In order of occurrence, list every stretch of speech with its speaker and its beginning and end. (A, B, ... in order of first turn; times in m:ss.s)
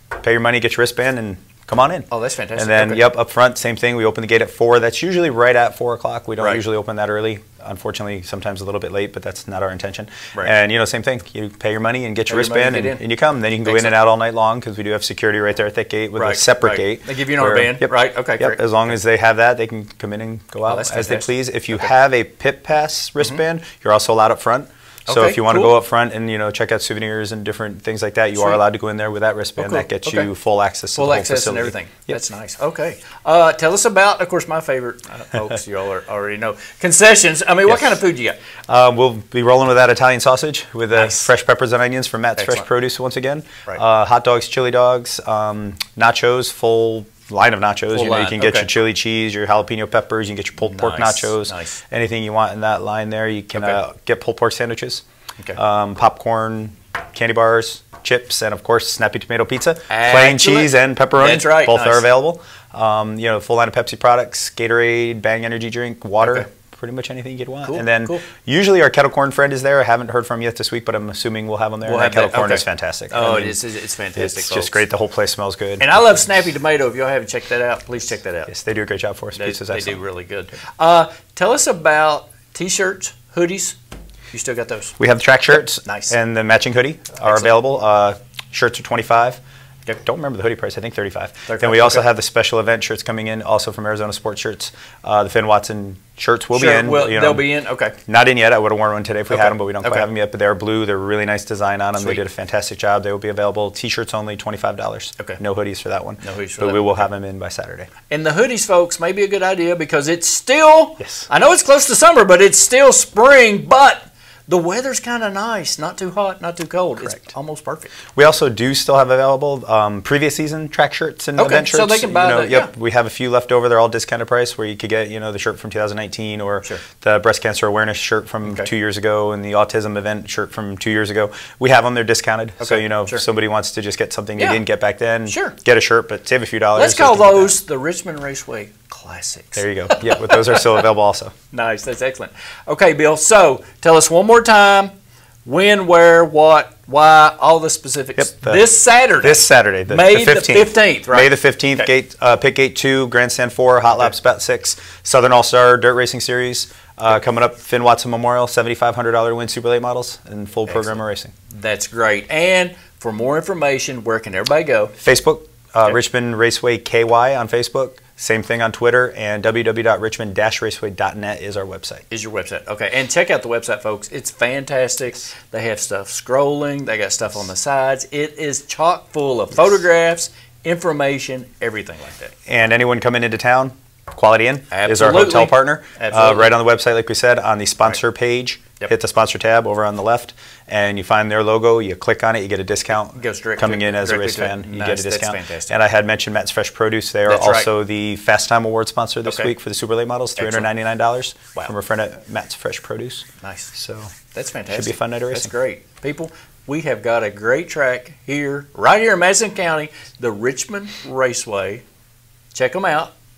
0:00.2-0:32.2 A
0:02.1-0:03.0 B
0:06.4-0:06.6 B
0:12.3-0:13.0 B
0:13.6-0:14.0 B
0:16.2-0:18.6 B
0:20.7-0:21.9 B
0:25.1-0:25.8 B
0:28.4-0:28.6 B
0:29.6-0:30.3 B
0:30.9-0:38.4 B
0:37.7-0:38.0 A
0:38.7-0:55.0 A
0:40.9-0:41.3 B
0:42.4-0:42.7 B
0:47.9-0:48.7 B
0:50.6-0:51.8 B
0:53.5-0:53.8 B
0:55.6-1:13.6 A
0:59.9-1:02.1 B
1:06.2-1:06.5 B
1:07.7-1:08.2 B
1:11.8-1:14.8 B
1:14.2-1:16.2 A
1:15.8-1:18.5 B
1:18.5-1:20.0 A
1:19.3-1:23.8 B
1:24.3-1:25.0 B
1:25.0-1:29.4 A
1:25.7-1:26.1 B
1:27.2-1:27.5 B
1:30.0-1:37.5 A
1:31.5-1:32.0 B
1:36.5-1:38.0 B
1:38.1-1:47.9 A
1:39.3-1:40.1 B
1:42.0-1:42.2 B
1:46.2-1:47.1 B
1:48.1-1:57.9 B
1:51.0-1:51.3 A
1:58.1-2:17.6 A
2:01.4-2:02.7 B
2:08.4-2:08.7 B
2:12.6-2:13.2 B
2:14.4-2:14.6 B
2:15.3-2:15.6 B
2:16.8-2:20.8 B
2:19.6-2:21.3 A
2:21.5-2:24.9 B
2:25.4-2:31.9 B
2:28.2-2:28.7 A
2:29.2-2:41.3 A
2:40.7-2:44.9 B
2:45.0-2:52.0 A
2:52.1-3:02.3 B
3:02.5-3:24.1 A
3:04.7-3:06.5 B
3:13.1-3:15.8 B
3:17.2-3:17.7 B
3:19.2-3:19.5 B
3:20.4-3:20.7 B
3:23.4-3:23.7 B
3:24.3-3:31.8 B
3:24.7-3:25.5 A
3:32.5-3:33.1 B